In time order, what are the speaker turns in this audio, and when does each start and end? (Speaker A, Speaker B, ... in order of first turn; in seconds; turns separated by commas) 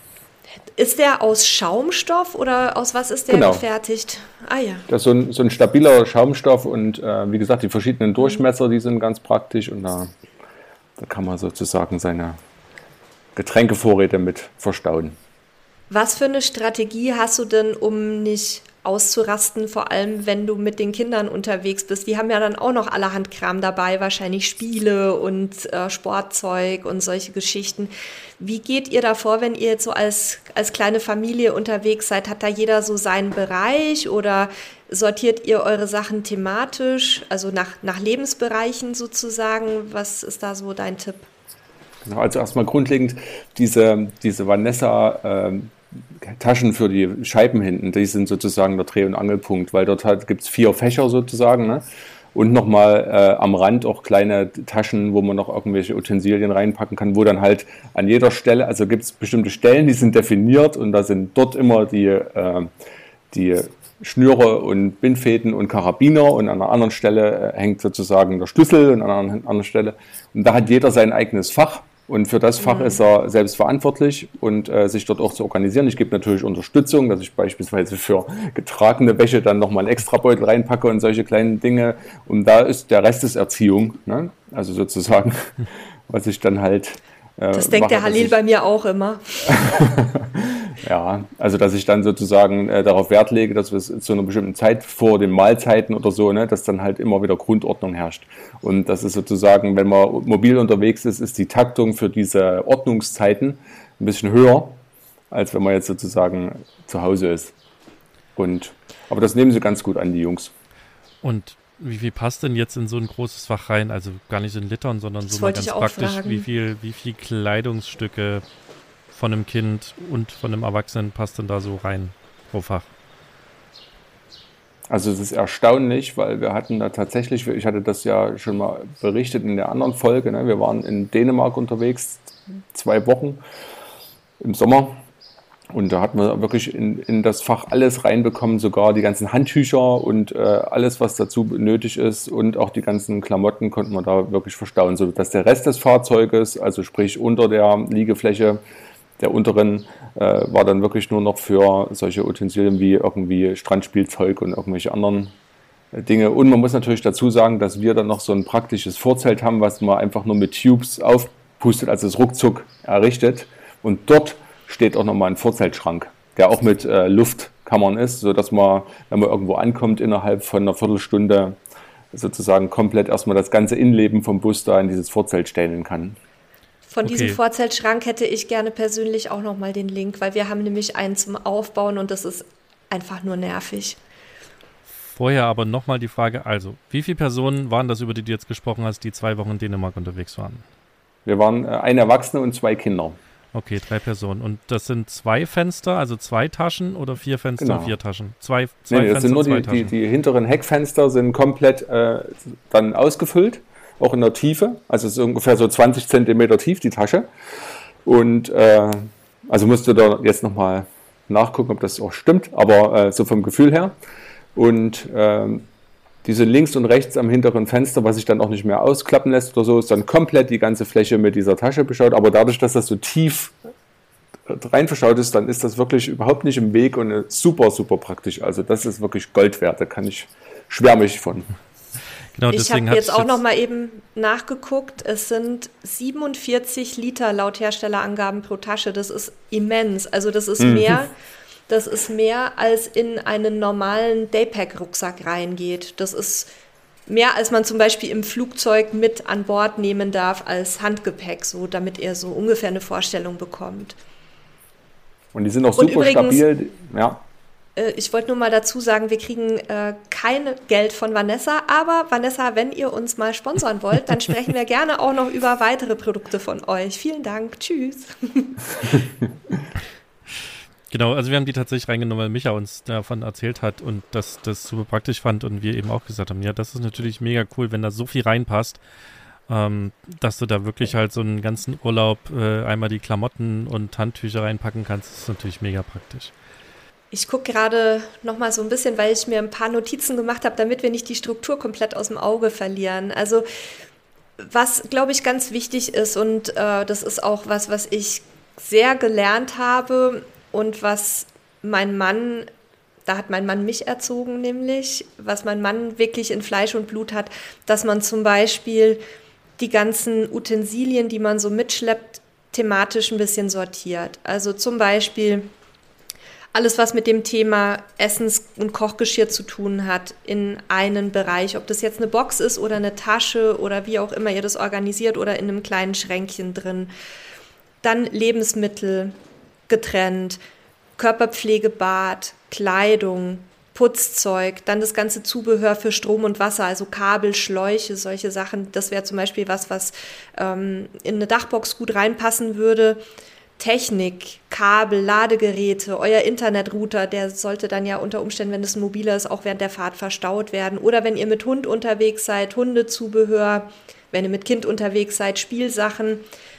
Speaker A: 0.8-4.9, Speaker B: 3.3-3.6, Speaker B: 4.9-10.1, Speaker B: 11.0-12.4, Speaker B: 13.3-15.2, Speaker A: 15.9-41.3, Speaker B: 42.0-62.7, Speaker B: 63.3-88.3, Speaker A: 72.6-73.0, Speaker A: 87.5-89.7, Speaker B: 89.5-107.5, Speaker B: 108.4-110.5, Speaker C: 111.2-118.4, Speaker A: 115.3-116.4, Speaker C: 119.1-122.9, Speaker B: 124.9-133.4, Speaker B: 134.4-135.0, Speaker B: 135.7-148.6, Speaker B: 149.2-155.3, Speaker B: 155.9-171.6, Speaker B: 172.1-176.2, Speaker A: 176.9-184.0, Speaker C: 177.0-177.4, Speaker C: 184.9-190.6, Speaker B: 191.2-193.2, Speaker C: 193.5-199.9, Speaker B: 197.6-197.9, Speaker B: 198.9-207.3, Speaker B: 208.0-213.9, Speaker B: 214.5-215.7, Speaker B: 216.2-223.5, Speaker B: 224.5-231.5, Speaker C: 232.3-233.4, Speaker A: 232.5-241.1, Speaker B: 240.6-241.0, Speaker A: 241.7-246.5, Speaker A: 247.1-254.0, Speaker B: 255.3-257.2, Speaker A: 255.8-256.4, Speaker A: 257.8-269.0, Speaker C: 270.9-278.8, Speaker C: 279.5-286.3, Speaker A: 287.1-293.4, Speaker A: 294.4-302.5, Speaker A: 303.1-309.0, Speaker A: 309.6-315.5, Speaker A: 316.5-326.9, Speaker A: 327.8-329.1, Speaker A: 329.7-330.4, Speaker A: 331.0-343.0, Speaker A: 343.6-356.2